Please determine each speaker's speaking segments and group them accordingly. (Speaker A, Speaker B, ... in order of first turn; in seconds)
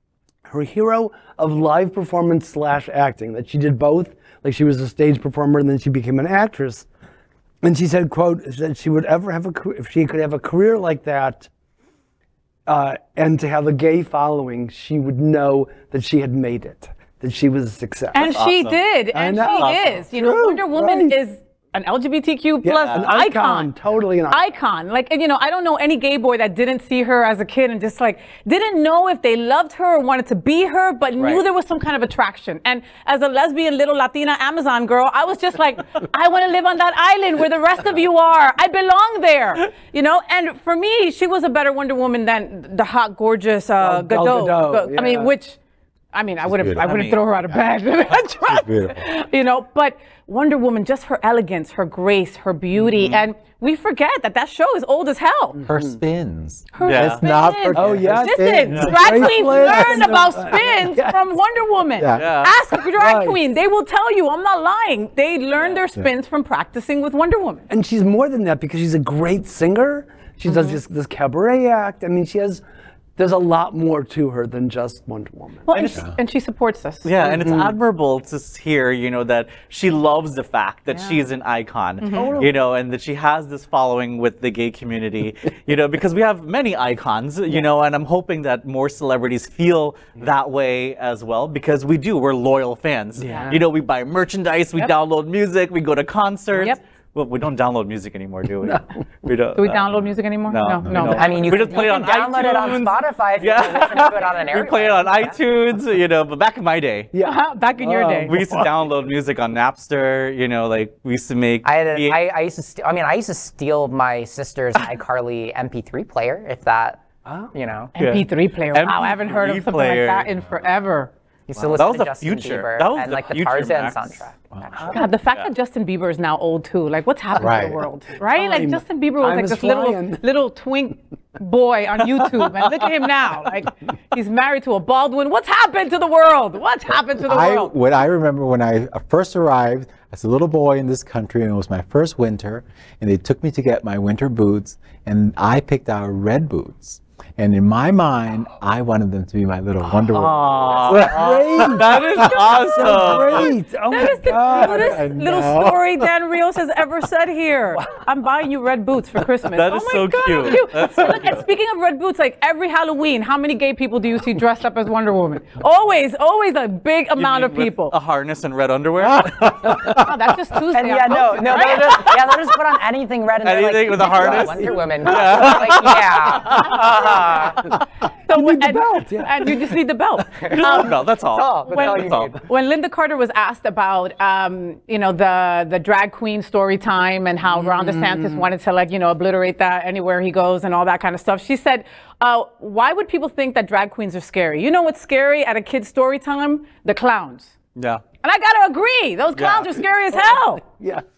Speaker A: 0.5-6.9, 7.6-11.5, 12.7-18.3, 19.1-21.1, 22.6-24.4, 43.8-45.3, 55.6-56.0, 57.7-61.2, 63.0-63.4, 67.7-72.6, 73.2-76.0, 77.4-77.7, 82.1-82.5, 93.2-93.6, 98.6-99.0, 107.1-108.7, 117.2-117.5, 128.3-130.2, 150.9-155.0, 174.1-174.7, 178.3-179.7, 200.3-201.0
Speaker B: 18.1-23.7, 24.3-45.6, 46.1-55.6, 56.7-67.6, 70.5-70.8, 75.7-77.3, 82.0-82.3, 96.5-96.8, 99.5-101.3, 107.2-108.4, 117.9-121.1, 124.9-137.7, 152.8-167.9, 169.9-172.2, 178.3-181.1, 181.6-197.5, 198.2-200.6
Speaker C: 18.2-20.0, 22.8-23.1, 46.8-47.2, 56.8-57.2, 58.7-59.0, 62.1-62.5, 77.0-99.8, 100.5-107.1, 108.2-112.2, 118.0-120.3, 121.7-124.2, 150.1-153.5, 159.5-161.4, 167.2-169.9, 173.4-177.1, 180.4-182.3, 197.8-198.0, 199.3-199.8
Speaker D: 31.2-31.4, 101.2-105.4, 111.6-117.9, 121.5-125.0, 170.7-177.6, 181.3-182.3
Speaker E: 46.5-46.9, 48.4-49.0, 55.6-60.0, 62.0-62.3, 100.8-101.2, 127.4-127.8, 137.2-152.4, 154.4-155.8, 169.2-169.9